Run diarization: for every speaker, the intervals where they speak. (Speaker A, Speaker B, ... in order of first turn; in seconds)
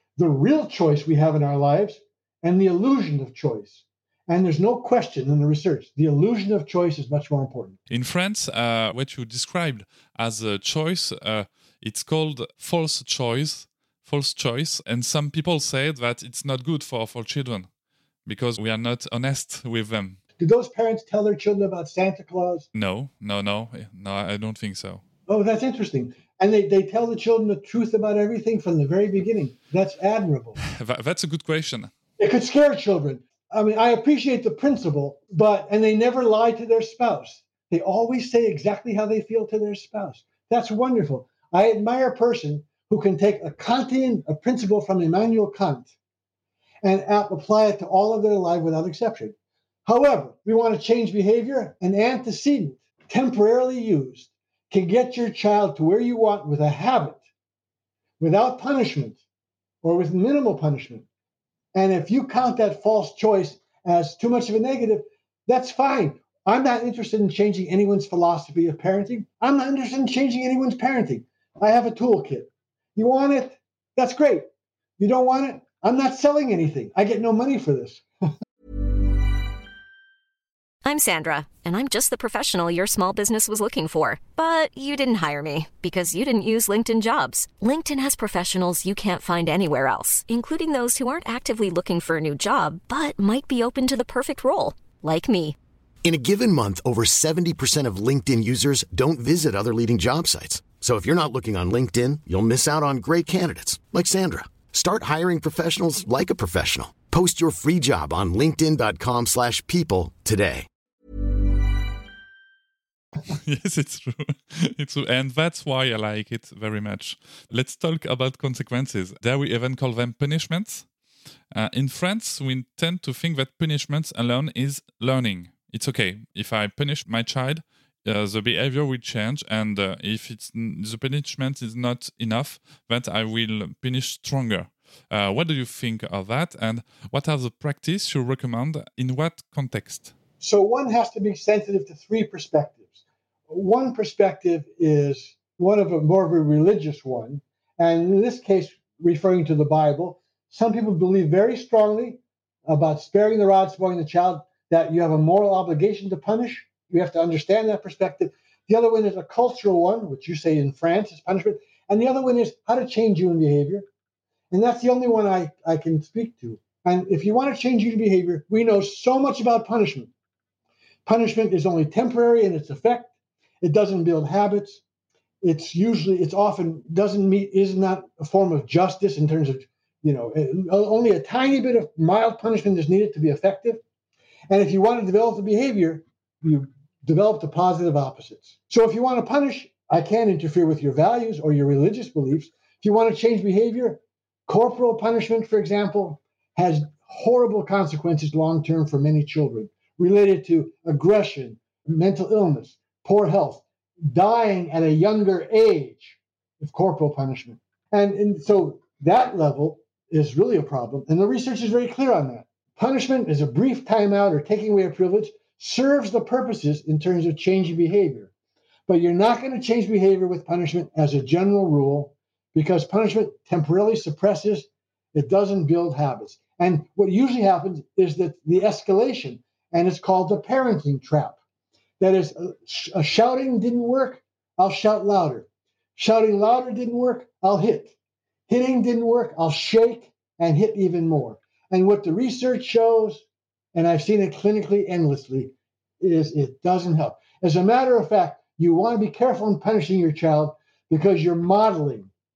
Speaker A: 0.2-7.8, 20.4-22.7, 25.3-30.6, 32.2-45.9, 46.8-57.2, 58.2-59.2, 59.8-61.1, 61.7-74.5, 75.0-78.0, 140.4-163.9, 164.5-170.1, 171.1-174.8, 175.4-183.8, 184.5-218.3, 218.9-231.4, 232.0-237.9, 238.5-252.1
Speaker B: 7.9-17.7, 18.3-20.2, 22.7-25.0, 30.6-31.9, 113.2-120.9, 121.5-140.1
Speaker C: 80.8-95.6
Speaker D: 96.0-110.7